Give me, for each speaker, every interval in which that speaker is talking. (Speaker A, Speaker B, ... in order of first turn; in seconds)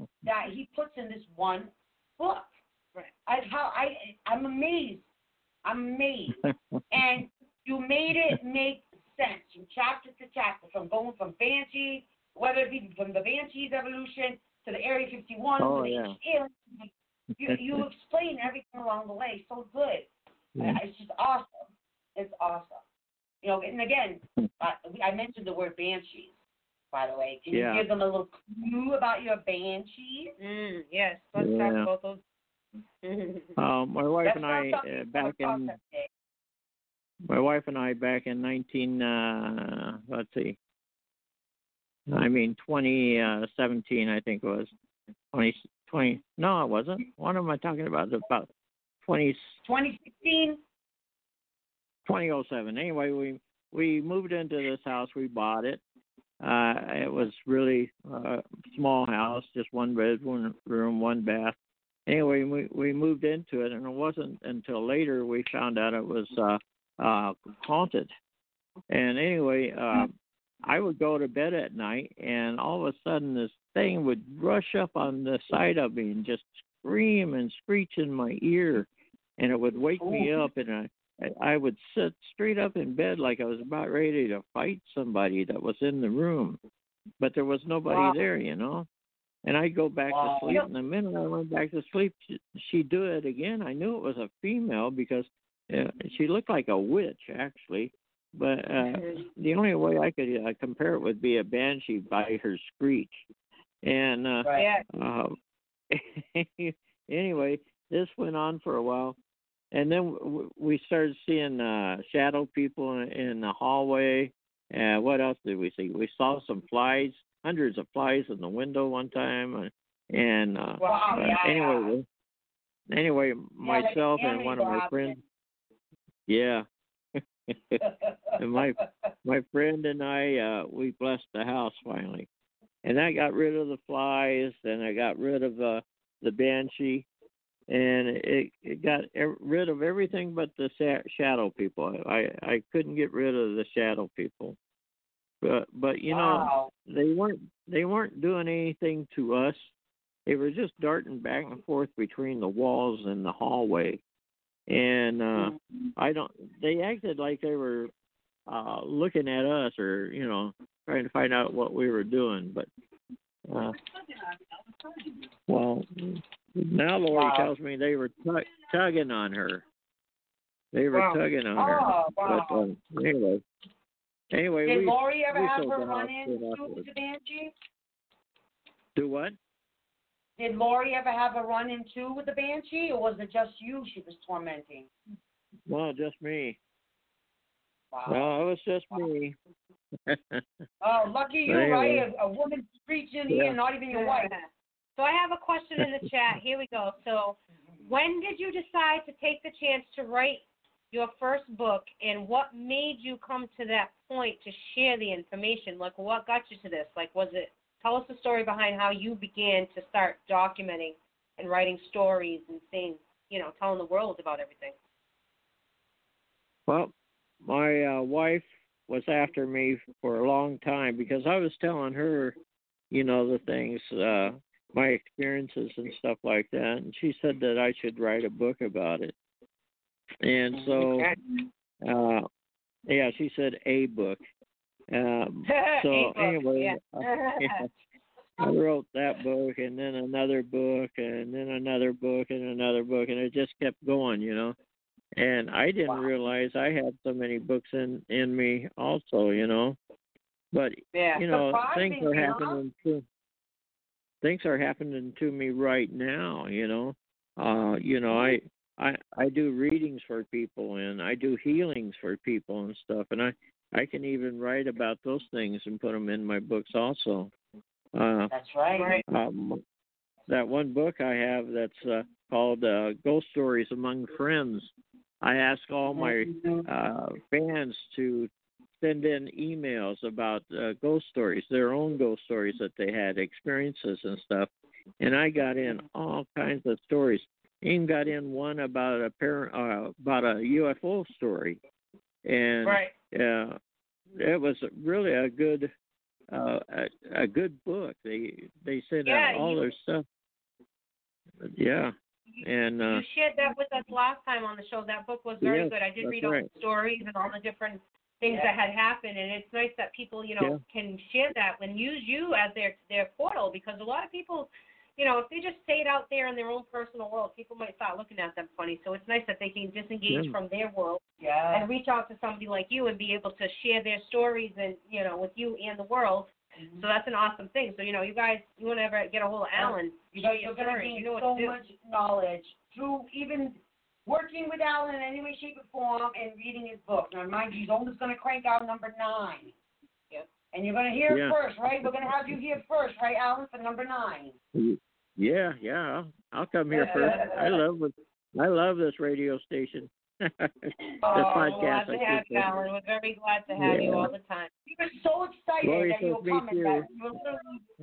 Speaker A: 0.2-2.5, 3.2-5.1, 5.6-22.8, 23.4-26.4, 26.9-30.3, 34.2-36.1, 49.6-50.6, 80.0-80.4, 87.9-88.2, 90.1-90.7, 104.4-104.7, 120.8-121.9, 123.6-125.2, 127.8-128.9, 146.1-146.7, 167.1-167.5, 170.9-172.7, 174.6-177.5, 180.4-184.9, 187.9-188.3, 190.8-194.3, 251.2-252.6, 268.3-269.0, 275.9-276.7, 308.3-308.6, 321.2-321.7, 326.6-326.9, 329.5-339.5, 340.5-344.4, 351.0-351.6, 354.7-357.6
Speaker B: 6.4-6.8, 15.6-16.2, 17.4-17.8, 27.5-27.9, 31.4-31.9, 33.6-35.8, 37.2-40.6, 42.1-44.7, 45.3-48.5, 49.0-49.5, 52.0-55.8, 56.4-61.5, 62.1-68.1, 68.9-70.1, 70.6-86.6, 87.2-88.9, 89.4-103.2, 103.8-105.3, 105.9-109.2, 109.7-122.1, 122.9-125.2, 126.3-127.8, 128.4-132.3, 132.8-137.1, 137.7-144.6, 145.4-149.7, 150.2-154.0, 154.7-157.9, 158.5-162.7, 163.5-163.8, 165.5-169.6, 170.7-173.4, 174.3-176.8, 178.9-179.4, 185.7-186.6, 188.1-189.3, 190.1-190.4, 191.4-192.0, 193.3-193.6, 216.7-216.9, 217.4-222.4, 222.9-229.1, 230.2-231.1, 231.8-232.3, 232.9-234.2, 234.9-237.7, 238.4-244.6, 245.2-249.8, 250.5-253.0, 254.2-267.3, 267.9-268.3, 269.1-269.6, 270.3-291.6, 292.2-293.6, 294.1-295.7, 296.3-300.0, 301.4-303.0, 305.4-306.5, 320.1-320.3, 341.1-341.9, 344.5-352.5, 353.6-354.1, 355.6-356.9
Speaker C: 30.4-32.2, 33.0-33.5, 104.5-104.8, 120.8-121.4, 193.9-214.7, 230.8-231.2, 235.5-237.7, 250.9-251.2, 268.7-269.0, 292.6-292.9, 299.0-299.7, 302.3-331.6, 346.7-347.5, 350.9-354.5